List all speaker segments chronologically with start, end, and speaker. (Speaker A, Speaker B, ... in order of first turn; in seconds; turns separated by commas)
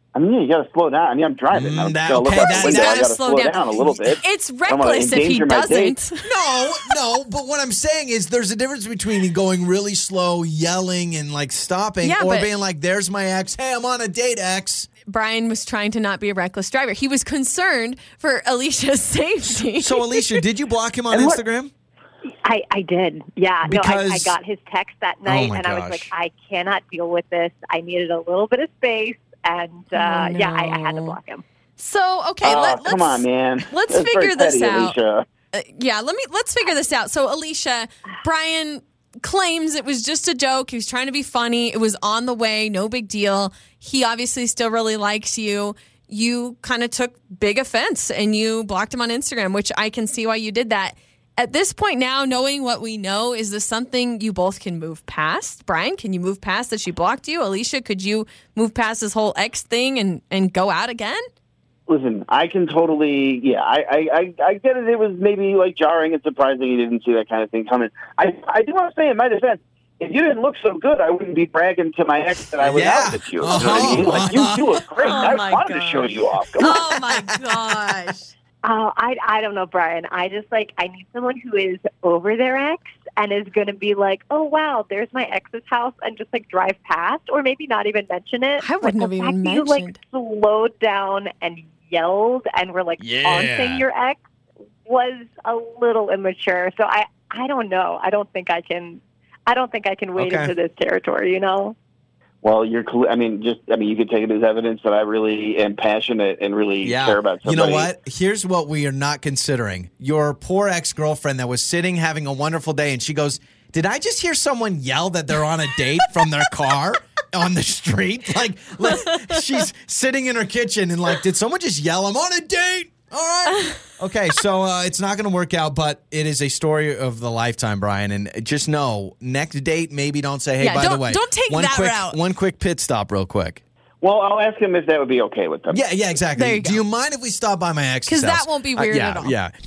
Speaker A: 0.1-6.0, Speaker B: 1.5-3.1, Speaker C: 2.3-6.5, Speaker B: 6.2-14.9, Speaker C: 12.0-12.5, Speaker C: 15.1-20.4, Speaker B: 19.7-21.7, Speaker D: 22.2-31.4, Speaker B: 23.6-24.3, Speaker B: 25.2-26.1, Speaker C: 29.9-31.1, Speaker C: 31.8-35.0, Speaker A: 32.4-35.2, Speaker C: 35.5-61.2, Speaker A: 61.9-76.8, Speaker B: 72.6-74.8, Speaker C: 73.6-78.3, Speaker B: 76.7-77.0, Speaker D: 78.6-94.2, Speaker C: 88.6-90.0, Speaker B: 93.0-93.8, Speaker D: 94.8-101.7, Speaker B: 100.2-100.5, Speaker A: 102.4-107.9, Speaker B: 106.8-133.6, Speaker C: 130.6-132.2, Speaker A: 134.0-135.8, Speaker B: 135.7-139.5, Speaker C: 136.3-136.8, Speaker C: 138.1-139.3